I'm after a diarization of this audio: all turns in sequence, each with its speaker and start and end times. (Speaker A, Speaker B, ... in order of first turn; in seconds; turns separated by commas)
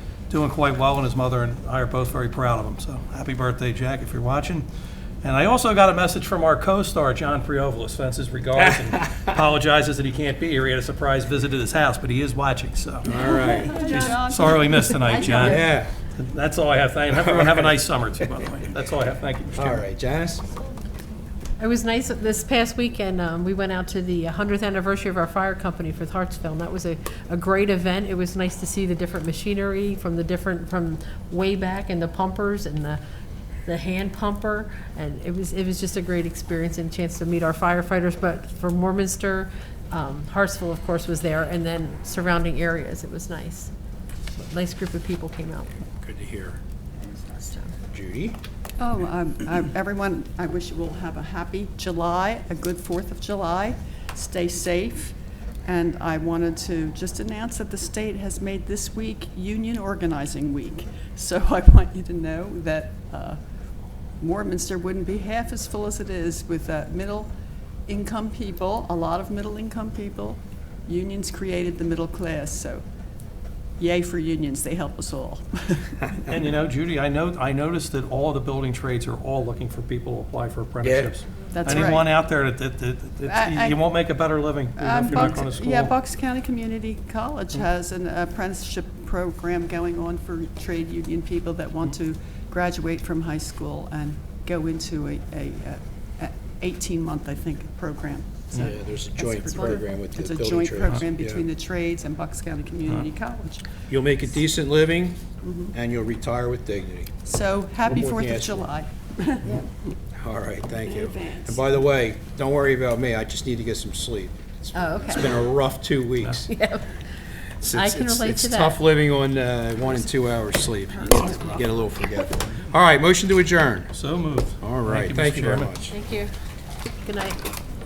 Speaker A: 0.3-4.6, Speaker A: 5.2-13.1, Speaker B: 13.0-13.8, Speaker C: 13.1-14.9, Speaker A: 13.7-19.8, Speaker D: 14.9-15.8, Speaker B: 15.3-15.9, Speaker B: 17.1-17.7, Speaker B: 19.6-20.4, Speaker D: 21.6-33.0, Speaker D: 33.6-43.7, Speaker D: 44.4-45.7, Speaker B: 46.0-46.6, Speaker D: 47.2-47.7, Speaker B: 47.9-48.4, Speaker C: 48.8-63.4, Speaker C: 64.2-67.3, Speaker C: 67.9-72.8, Speaker C: 73.8-76.1, Speaker A: 76.2-85.9, Speaker B: 80.8-81.1, Speaker C: 81.5-82.1, Speaker C: 83.2-83.8, Speaker C: 84.8-103.6, Speaker B: 98.5-101.4, Speaker B: 103.9-105.2, Speaker C: 105.4-105.7, Speaker B: 105.7-107.1, Speaker C: 107.2-109.6, Speaker B: 107.9-108.7, Speaker B: 110.2-116.5, Speaker C: 110.9-111.6, Speaker D: 114.7-115.3, Speaker D: 116.5-117.0, Speaker D: 117.6-118.8, Speaker B: 117.6-123.9, Speaker C: 121.1-121.4, Speaker A: 123.9-125.7, Speaker B: 124.6-125.9, Speaker D: 125.9-126.3, Speaker D: 127.0-127.4